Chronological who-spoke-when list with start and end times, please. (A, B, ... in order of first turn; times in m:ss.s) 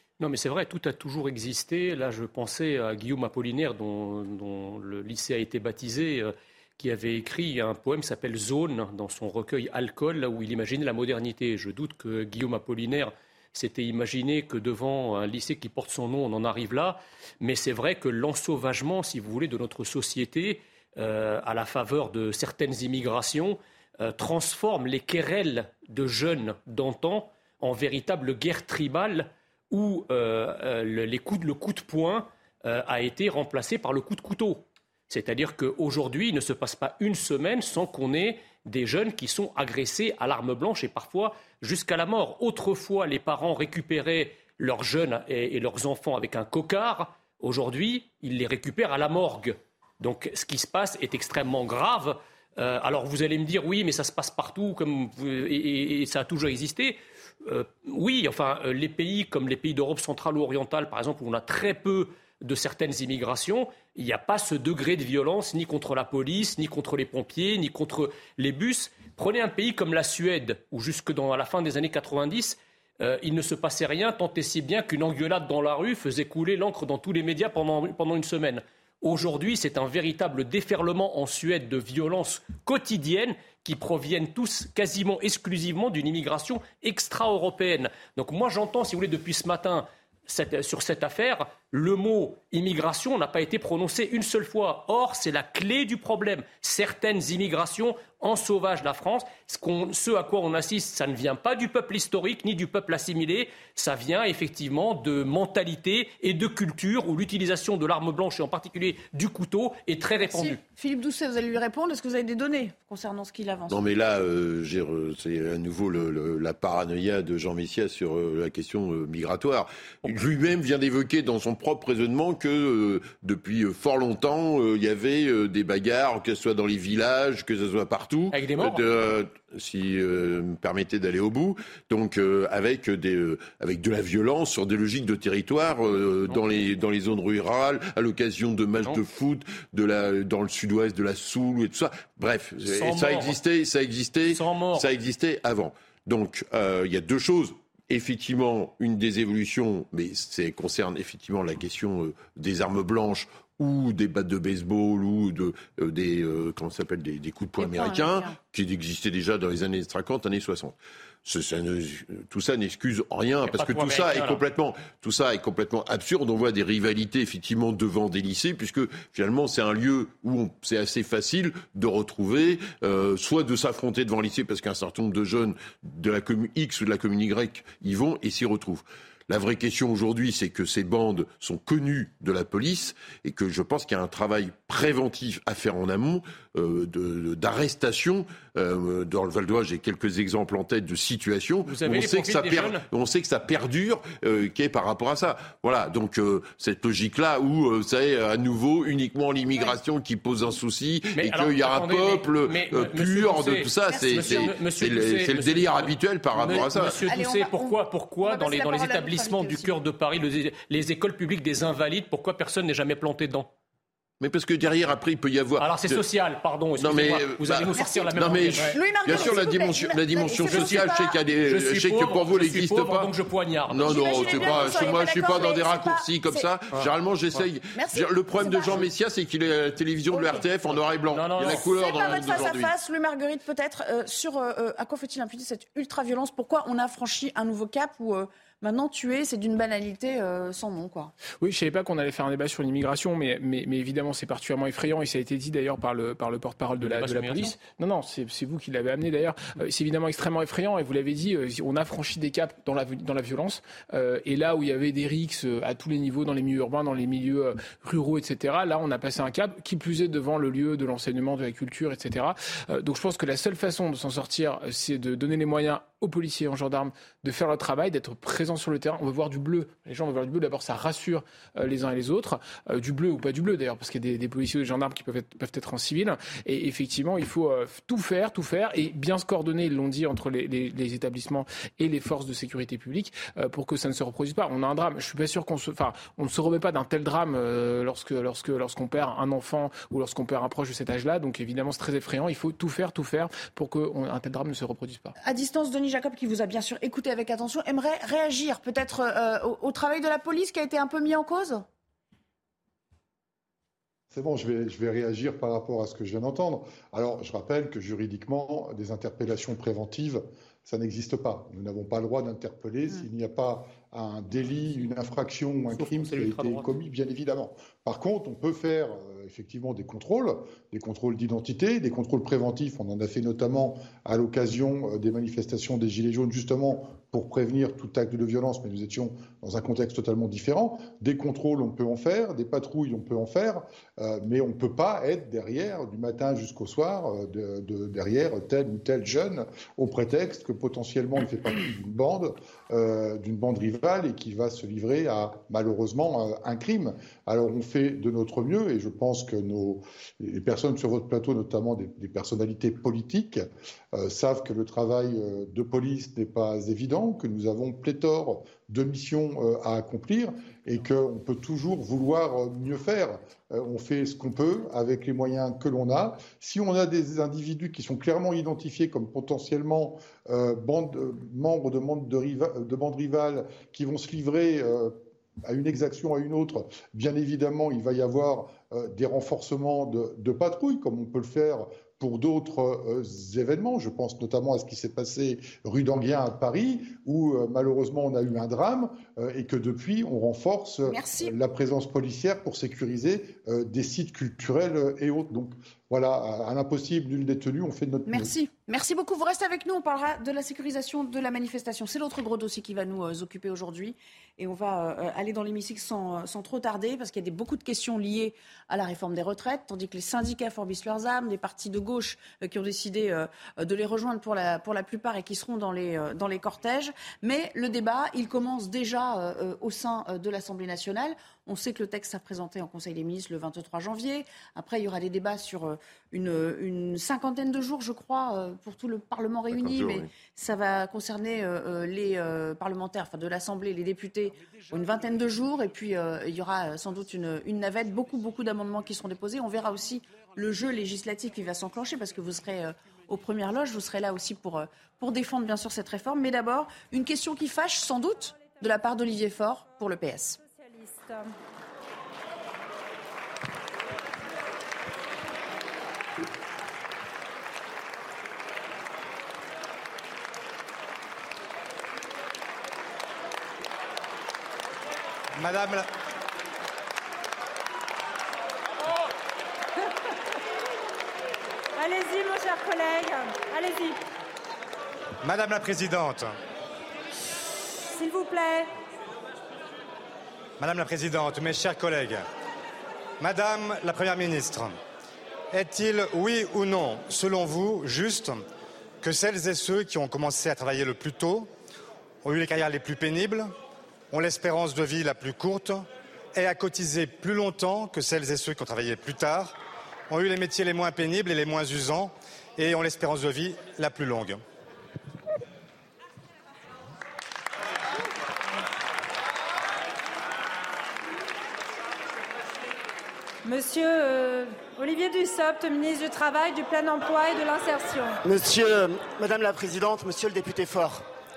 0:00.2-1:50.6 A
1:50.2-1:53.8 B
1:53.7-3:27.0 C
2:08.3-2:08.8 A
2:22.6-2:23.4 A
2:24.3-2:24.9 A
2:37.6-2:38.4 B
2:43.5-2:44.4 A
3:11.7-3:12.8 A
3:21.2-3:33.5 A
3:23.9-3:24.5 B
3:26.5-3:29.7 B
3:34.2-3:36.0 C
3:35.6-3:39.4 A
3:36.8-3:43.1 C
3:37.8-3:41.2 B
3:40.4-3:40.8 A
3:41.5-3:45.0 A
3:43.7-3:52.7 C
3:43.8-3:46.5 B
3:47.7-3:48.9 B
3:50.1-3:50.4 B
3:51.1-3:51.7 A
3:51.4-4:01.1 B
4:01.4-4:55.2 D
4:06.8-4:07.6 A
4:55.2-5:01.6 B
5:04.1-6:38.3 E
5:15.7-5:16.7 A
6:30.9-6:31.3 B
6:38.1-7:30.4 B
7:09.5-7:10.1 C
7:30.4-7:31.4 F
7:45.4-7:45.9 G
7:51.8-7:54.0 F
7:55.2-7:56.3 G
7:57.8-7:58.7 F
8:00.6-8:02.2 G
8:03.2-8:04.8 G
8:05.5-8:08.4 G
8:09.0-8:11.5 G
8:12.2-8:13.5 G
8:14.1-8:15.8 G
8:16.4-8:19.5 G
8:20.1-8:24.4 G
8:33.4-8:38.2 F
8:38.2-8:41.0 H